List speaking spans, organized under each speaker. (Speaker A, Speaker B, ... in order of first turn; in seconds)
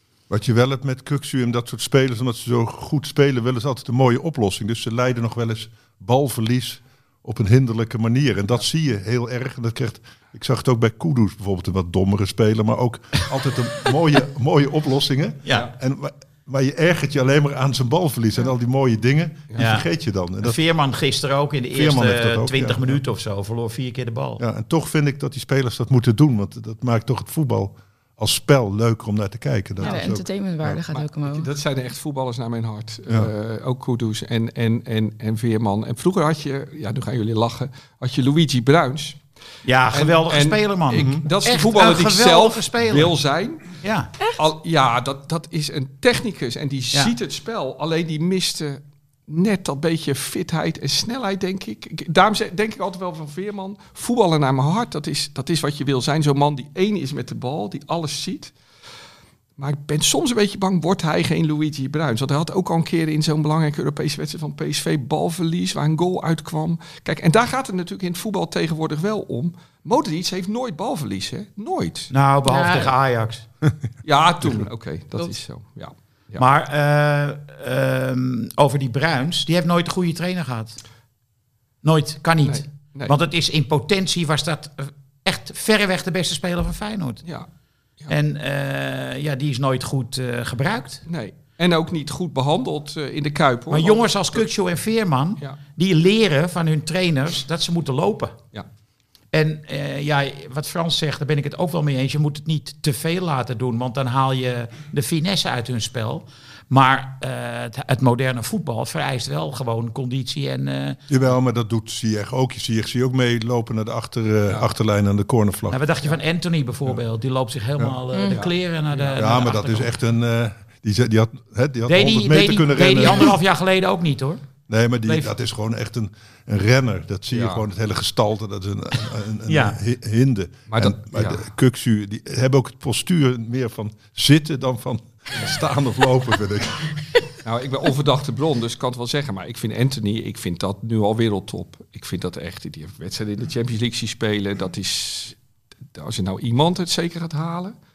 Speaker A: 0.3-20.6, 21.7-23.0, 24.4-30.8, 41.0-41.2, 74.4-74.7, 111.1-115.8, 119.2-123.4, 124.7-137.2
Speaker B: 15.4-15.7, 19.6-19.9, 20.4-24.4, 39.6-43.1, 43.8-44.1, 72.1-73.5, 76.4-80.8, 81.8-87.3, 88.1-91.0, 93.7-98.4, 99.3-111.0, 115.7-119.9, 121.9-124.5, 125.1-125.3, 129.5-129.8
Speaker C: 29.8-31.5, 72.5-72.9, 118.1-118.4
Speaker D: 30.9-39.2, 39.9-43.8, 44.4-58.5, 59.6-72.1, 74.0-76.4, 82.4-83.2, 91.1-94.5, 118.3-119.2, 127.3-127.6, 130.7-131.4, 137.4-145.4, 145.9-147.8